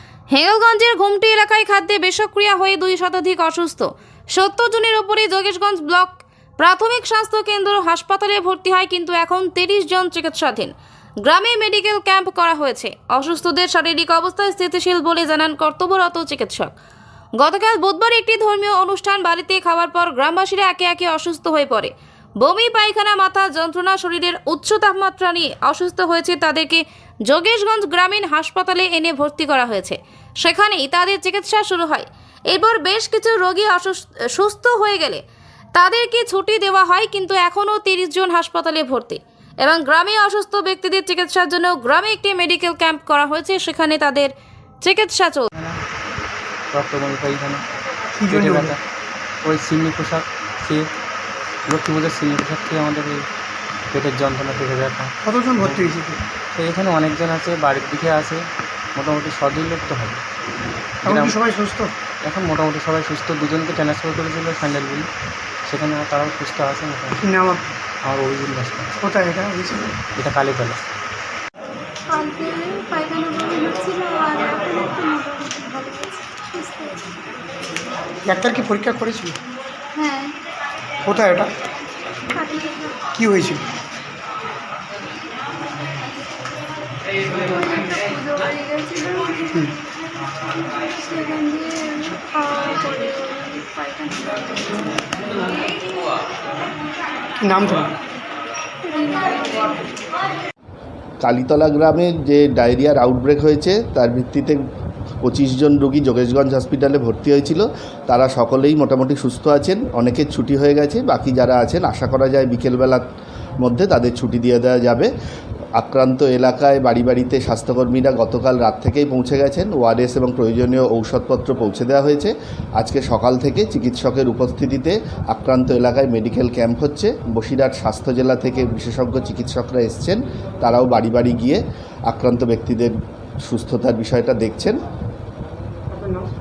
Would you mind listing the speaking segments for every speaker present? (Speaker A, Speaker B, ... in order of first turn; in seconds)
Speaker A: 0.3-10.7, 11.2-16.7, 17.4-35.2, 35.7-44.3, 44.8-45.5
Speaker B: 46.7-47.6, 48.3-48.8, 49.4-50.9, 51.7-53.3, 53.9-55.9, 56.5-60.2, 61.0-61.4, 62.2-65.1, 65.6-67.2, 68.0-68.9, 70.2-70.8
Speaker C: 48.1-48.8, 55.2-56.2, 61.0-61.9, 67.2-67.6, 69.0-69.9, 78.2-79.4, 81.0-81.5, 83.1-83.6, 97.4-97.9, 135.9-136.3
Speaker D: 72.1-77.1, 79.9-80.3, 82.3-83.0, 87.4-89.8, 90.4-95.6, 98.8-99.9
Speaker E: 101.2-104.6, 105.2-113.0, 113.6-115.1, 115.8-132.9, 133.4-134.8